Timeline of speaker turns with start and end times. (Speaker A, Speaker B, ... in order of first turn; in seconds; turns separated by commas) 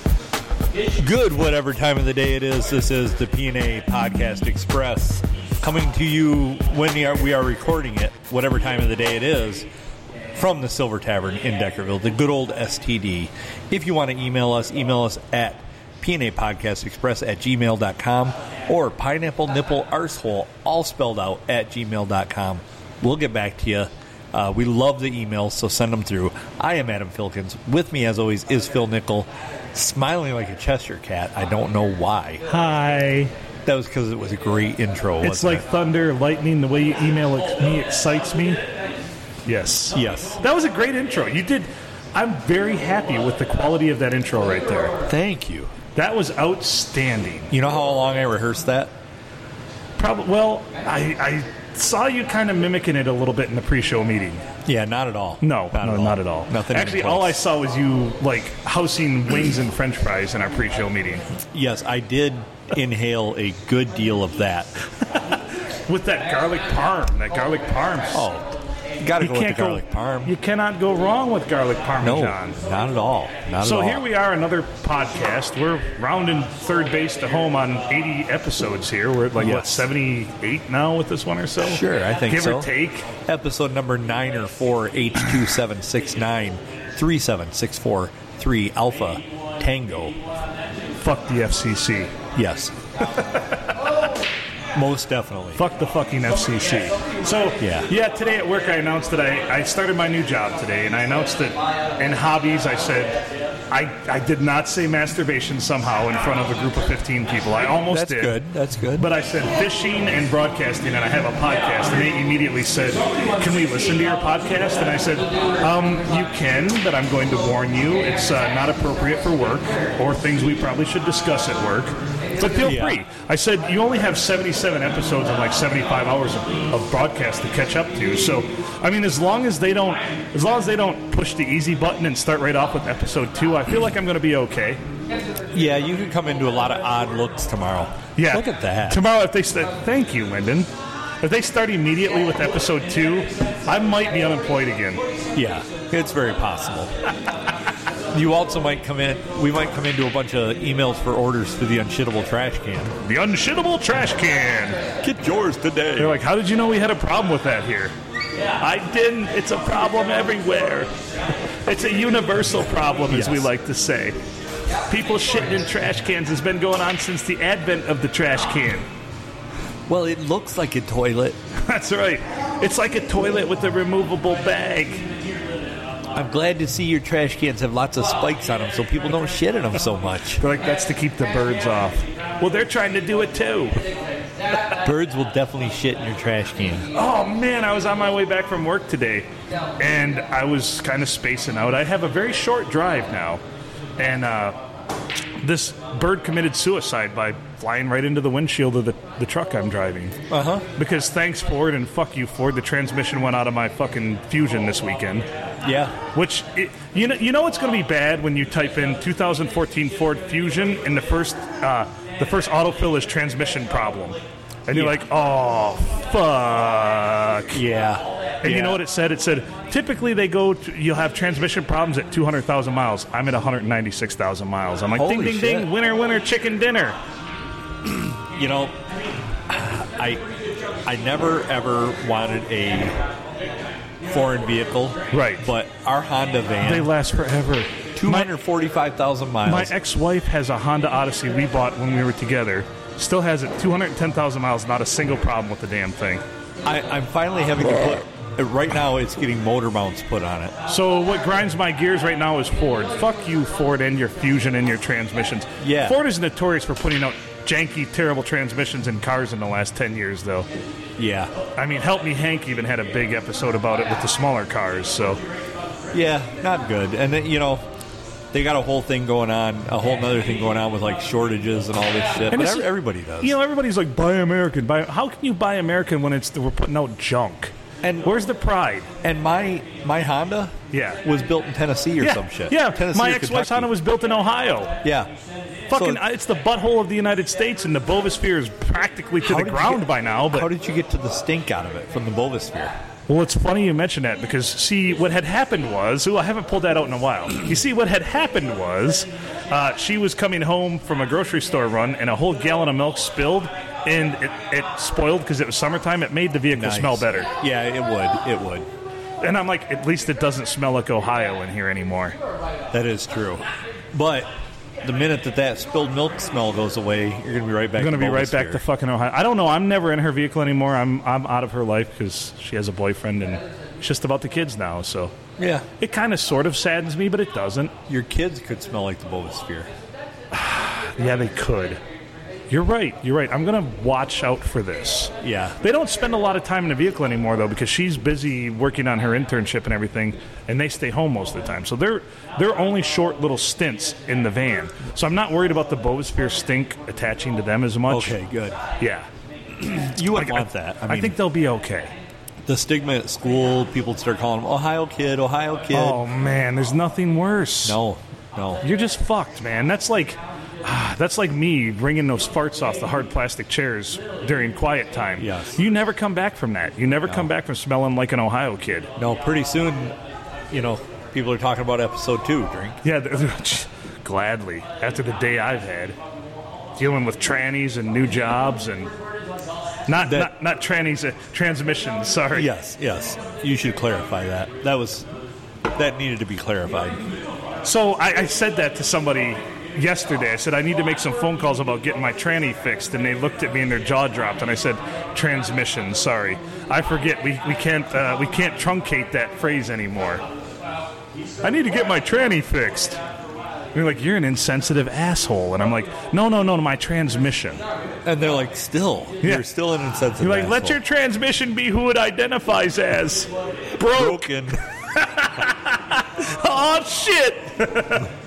Speaker A: 0.9-9.7, Speaker A: 10.3-32.4, Speaker B: 32.5-33.3, Speaker A: 33.6-35.6, Speaker B: 35.2-38.6, Speaker B: 39.5-45.0, Speaker A: 39.9-40.4, Speaker A: 45.1-45.7, Speaker B: 45.9-47.5, Speaker A: 47.5-48.9, Speaker B: 50.0-54.5, Speaker A: 54.6-57.4, Speaker B: 55.4-61.2, Speaker A: 61.5-64.8, Speaker B: 65.9-68.3, Speaker A: 68.1-70.3, Speaker B: 69.2-72.6, Speaker A: 72.0-74.1, Speaker B: 73.6-83.1, Speaker A: 79.4-79.9, Speaker A: 81.6-82.7, Speaker A: 83.2-90.2, Speaker B: 91.0-92.1, Speaker A: 92.3-92.8, Speaker B: 93.0-93.8, Speaker A: 94.7-95.6, Speaker B: 95.5-103.2, Speaker A: 97.6-97.9, Speaker B: 103.7-108.4, Speaker A: 107.9-109.1, Speaker B: 109.0-134.8, Speaker A: 122.6-123.0, Speaker A: 135.5-139.1, Speaker B: 138.2-140.7, Speaker B: 141.2-145.0, Speaker A: 145.3-146.9, Speaker A: 148.1-152.9, Speaker B: 153.0-154.8, Speaker A: 155.0-156.2, Speaker B: 156.0-157.9, Speaker B: 158.6-160.9, Speaker B: 161.7-164.2, Speaker A: 163.1-163.5, Speaker B: 164.9-168.9, Speaker A: 169.9-171.4, Speaker B: 171.6-175.1, Speaker A: 176.1-180.4, Speaker B: 180.4-183.8, Speaker A: 184.8-186.9, Speaker B: 186.9-193.4, Speaker B: 194.0-194.6, Speaker B: 195.4-200.2, Speaker A: 200.3-200.7, Speaker B: 200.8-205.3, Speaker A: 205.6-206.0, Speaker B: 206.1-217.6, Speaker A: 214.7-215.1, Speaker A: 217.5-218.8, Speaker B: 218.4-227.0, Speaker A: 224.9-225.7, Speaker A: 227.9-228.8, Speaker A: 229.5-230.3, Speaker A: 230.8-233.0, Speaker A: 234.1-236.9, Speaker B: 235.1-235.4, Speaker B: 236.6-238.3, Speaker A: 237.9-239.7, Speaker B: 239.4-246.2, Speaker A: 246.6-250.6, Speaker B: 250.7-260.5, Speaker A: 255.6-256.0, Speaker A: 261.0-261.3, Speaker B: 261.6-265.2, Speaker A: 265.9-267.7, Speaker A: 268.3-273.4, Speaker B: 272.3-272.7, Speaker B: 273.2-278.9, Speaker A: 277.8-278.2, Speaker A: 279.0-283.7, Speaker B: 280.7-281.0, Speaker B: 282.0-284.8, Speaker A: 284.8-285.1, Speaker B: 285.7-290.5, Speaker A: 285.7-286.0, Speaker A: 289.2-292.8, Speaker B: 293.1-307.3, Speaker A: 306.5-308.7, Speaker B: 309.2-312.2, Speaker A: 312.7-314.3, Speaker A: 314.8-318.6, Speaker B: 317.8-325.2, Speaker A: 325.4-325.7, Speaker B: 325.8-327.8, Speaker A: 327.9-329.7, Speaker B: 330.3-331.8, Speaker B: 332.5-348.2, Speaker A: 335.2-335.6, Speaker A: 347.9-348.6, Speaker B: 348.8-349.1, Speaker B: 349.6-351.9, Speaker A: 349.9-351.2, Speaker A: 352.4-356.0, Speaker B: 355.7-357.8, Speaker A: 357.6-358.6, Speaker B: 358.6-368.9, Speaker A: 365.2-365.6, Speaker A: 369.0-370.0, Speaker A: 370.5-372.8, Speaker B: 372.8-376.0, Speaker B: 376.8-378.9, Speaker B: 379.9-382.5, Speaker A: 380.0-380.3, Speaker A: 382.3-385.1, Speaker A: 385.7-387.1, Speaker B: 387.6-400.2, Speaker B: 401.4-403.0, Speaker B: 403.7-407.6, Speaker A: 408.1-410.8, Speaker B: 410.2-418.1, Speaker A: 413.8-414.6